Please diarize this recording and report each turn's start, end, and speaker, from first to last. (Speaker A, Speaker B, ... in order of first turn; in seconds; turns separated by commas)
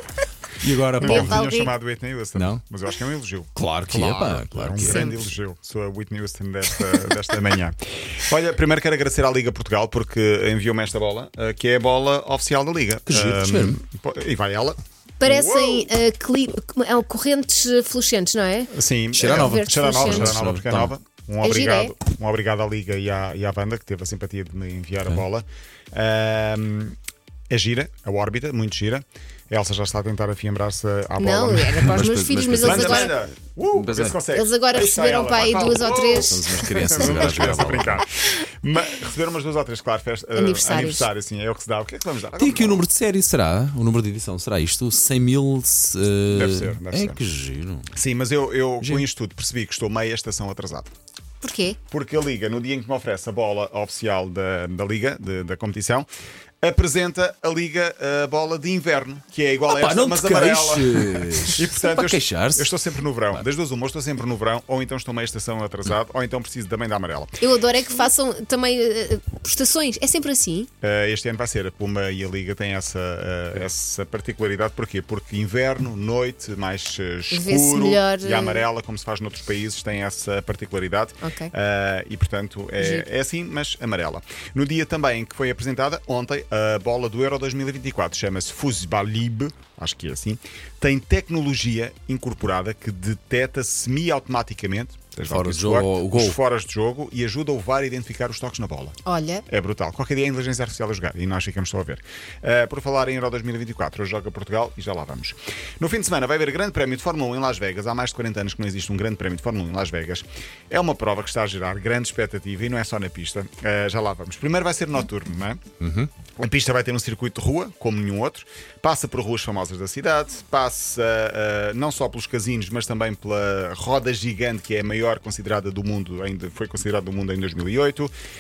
Speaker A: 0.6-1.4, Speaker B: 1.0-1.7, Speaker C: 1.0-15.9, Speaker A: 2.4-2.6, Speaker A: 3.5-5.1, Speaker B: 4.8-5.3, Speaker A: 13.1-13.8, Speaker B: 15.2-20.3, Speaker C: 18.7-27.0, Speaker A: 19.1-20.9, Speaker B: 21.4-21.9, Speaker C: 27.5-32.0, Speaker B: 31.2-33.1, Speaker A: 31.8-34.2, Speaker C: 32.6-42.9, Speaker B: 34.3-37.3, Speaker A: 36.0-38.0, Speaker B: 40.4-41.1, Speaker A: 42.4-47.9, Speaker C: 46.3-47.2, Speaker C: 47.9-50.9, Speaker B: 51.4-51.8, Speaker C: 51.9-56.1, Speaker C: 56.6-67.4, Speaker A: 59.7-62.7, Speaker B: 67.4-70.7, Speaker C: 70.8-115.6, Speaker B: 77.3-78.7, Speaker B: 81.2-81.5, Speaker B: 82.8-83.1, Speaker A: 95.3-96.4, Speaker B: 99.0-99.5, Speaker A: 115.8-116.1, Speaker C: 116.4-128.1